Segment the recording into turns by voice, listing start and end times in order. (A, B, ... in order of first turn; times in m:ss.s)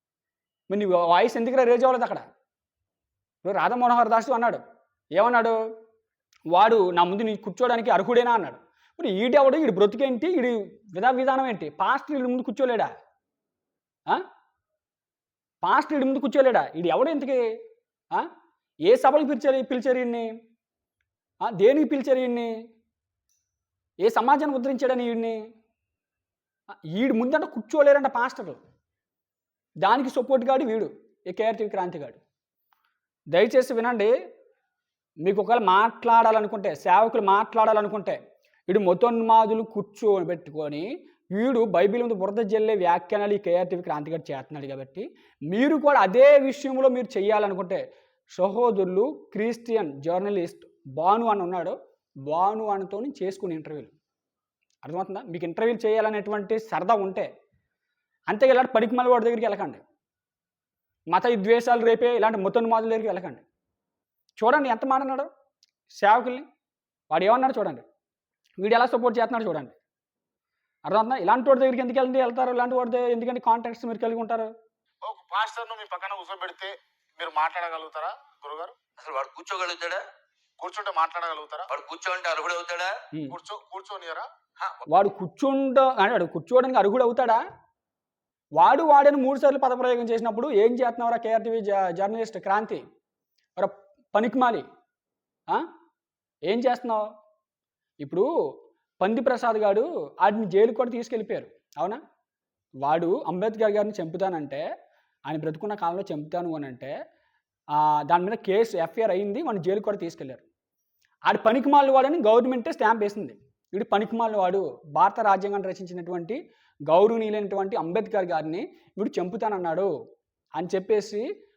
0:00.7-0:02.2 A
0:03.4-0:04.6 A
0:05.2-0:05.6 A
0:06.5-0:12.9 A
0:15.6-0:17.4 A
0:18.9-0:20.3 A
0:21.5-0:22.5 A
0:24.0-0:25.4 A
0:26.9-0:28.6 A
0:29.8-0:32.2 A
0:33.3-0:34.1 A
0:35.2-0:47.8 A
0:48.4-0:51.8 A
0:52.3-0:53.9 A
0:54.8-0:57.3 A
0:58.3-0:59.8 A
1:01.1-1:03.4 A
1:04.4-1:05.3 A
1:06.0-1:06.5 A
1:07.1-1:07.8 A
1:08.6-1:09.8 A
1:10.9-1:14.5 A
1:15.0-1:18.8 B
1:19.0-1:20.0 C
1:20.6-1:21.7 B
1:21.7-1:22.9 C
1:23.3-1:24.3 B
1:24.6-1:25.0 C
1:24.9-1:27.4 A
1:28.6-1:32.8 A
1:33.6-1:34.7 A
1:36.5-1:37.1 A
1:38.0-1:38.3 A
1:39.0-1:42.0 A
1:42.8-1:44.6 A
1:45.3-1:46.9 A
1:47.7-1:50.4 A
1:51.3-1:59.9 A
2:00.6-2:01.2 A